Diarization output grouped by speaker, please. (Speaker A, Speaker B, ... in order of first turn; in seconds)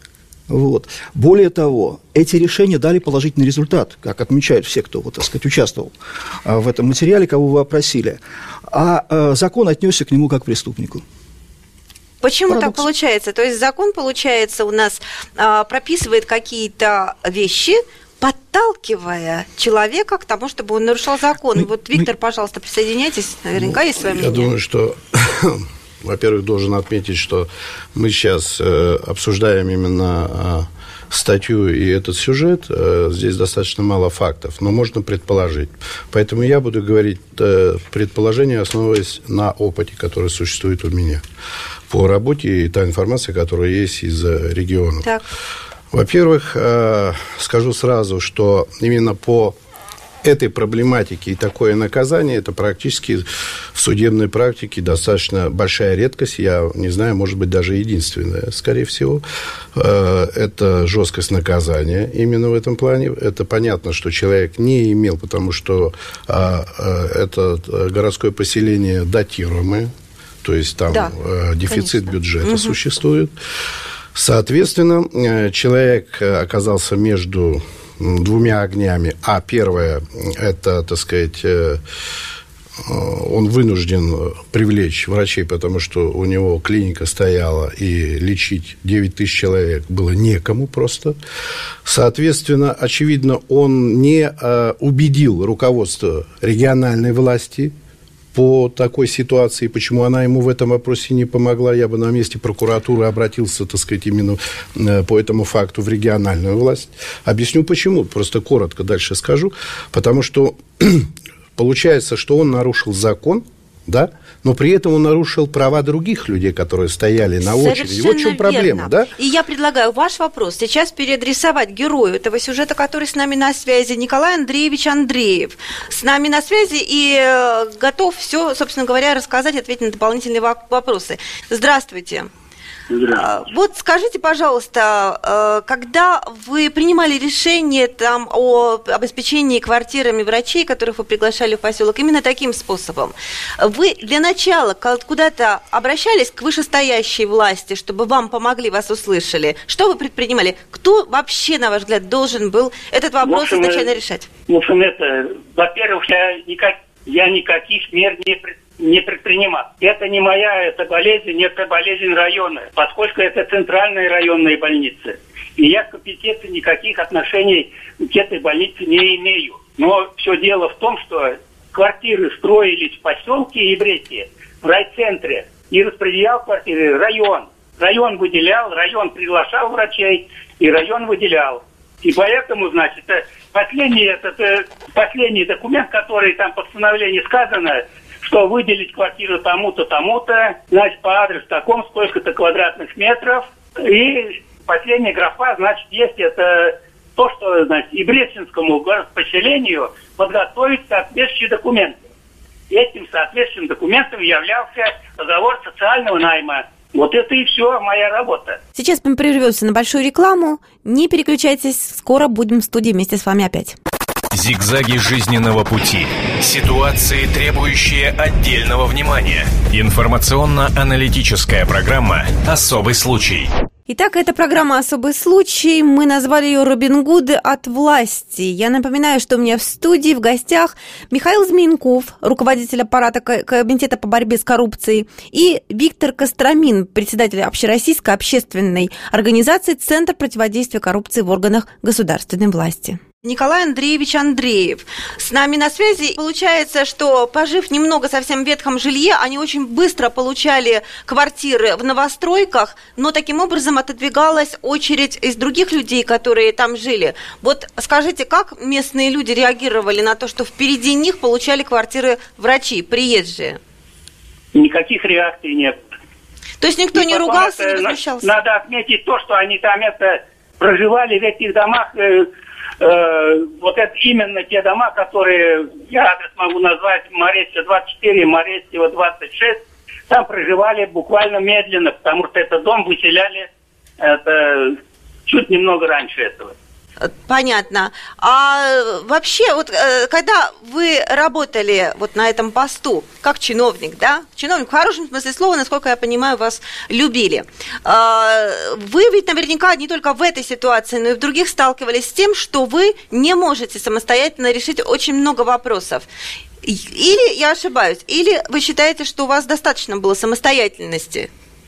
Speaker A: 0.5-5.9, 6.4-11.0, 12.5-12.8, 21.6-22.1
Speaker B: 12.2-24.5, 71.7-72.8, 117.4-132.3, 133.1-154.3, 208.7-213.8, 223.9-263.6, 266.6-268.3, 287.0-306.1, 306.6-311.3
Speaker C: 24.0-41.2, 41.9-45.1, 45.9-49.5, 50.2-59.2, 59.7-69.9, 70.4-73.3, 74.1-81.8, 82.8-91.2, 91.8-97.7, 98.3-119.1
Speaker D: 132.9-133.3, 153.2-153.9, 154.5-202.0, 202.7-208.6, 264.5-265.8, 266.9-272.3, 272.8-286.5
Speaker E: 214.3-223.5